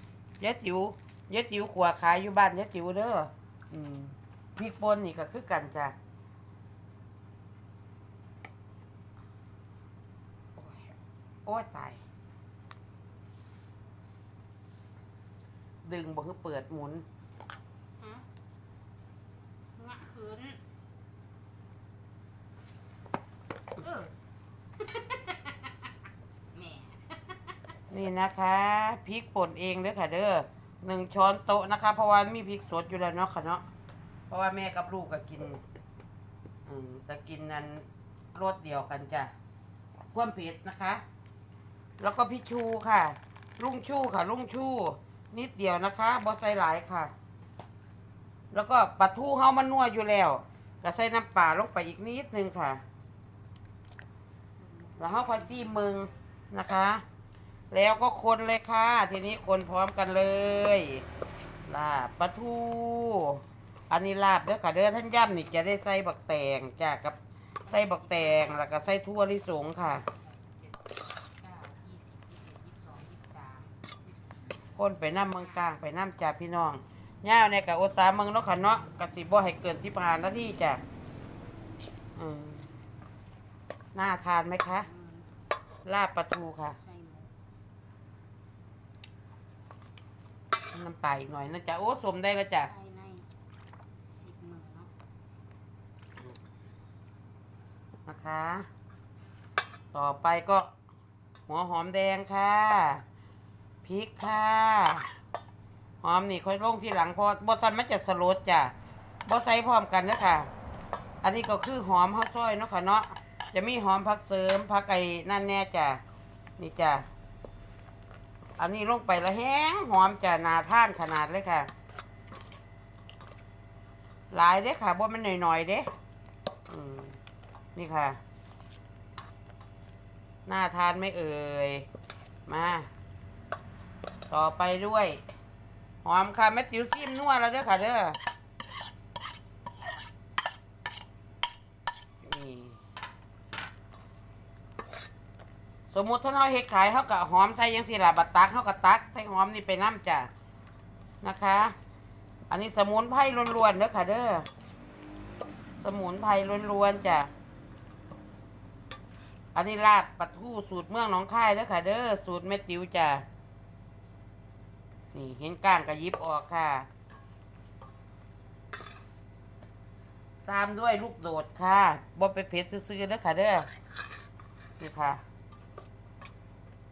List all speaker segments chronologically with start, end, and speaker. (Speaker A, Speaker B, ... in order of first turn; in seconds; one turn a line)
Speaker A: 0.4-6.0
Speaker A: 10.6-10.9
Speaker A: 11.5-12.0
Speaker A: 15.8-17.1
Speaker B: 18.0-18.2
Speaker B: 19.8-20.6
Speaker B: 23.8-24.1
Speaker B: 24.8-25.9
Speaker B: 26.5-27.5
Speaker A: 27.9-33.6
Speaker A: 34.3-35.6
Speaker A: 36.7-39.3
Speaker A: 40.1-41.0
Speaker A: 42.0-47.1
Speaker A: 48.5-52.8
Speaker B: 54.6-56.1
Speaker A: 55.0-57.0
Speaker A: 57.7-61.0
Speaker A: 61.7-70.1
Speaker B: 67.7-68.6
Speaker B: 70.1-74.7
Speaker A: 74.8-80.8
Speaker A: 82.2-82.7
Speaker A: 84.0-84.9
Speaker B: 84.7-85.3
Speaker A: 85.8-86.8
Speaker B: 86.8-87.3
Speaker A: 90.7-92.7
Speaker B: 92.7-93.3
Speaker B: 94.0-94.9
Speaker A: 98.1-98.7
Speaker A: 99.9-100.7
Speaker A: 101.5-103.0
Speaker A: 103.8-105.1
Speaker A: 106.0-108.7
Speaker A: 109.3-110.5
Speaker A: 111.2-116.0
Speaker A: 116.6-117.1
Speaker A: 118.6-121.7
Speaker A: 124.3-125.9
Speaker A: 126.7-127.2
Speaker A: 127.8-128.2
Speaker A: 130.5-131.9
Speaker A: 132.5-132.9
Speaker A: 134.3-135.2
Speaker A: 136.0-138.2
Speaker A: 142.2-142.8
Speaker A: 145.9-150.3
Speaker A: 151.2-151.8
Speaker A: 152.5-154.5
Speaker A: 155.8-157.3
Speaker A: 159.6-163.2
Speaker A: 165.1-166.9
Speaker A: 170.5-173.7
Speaker A: 174.8-175.2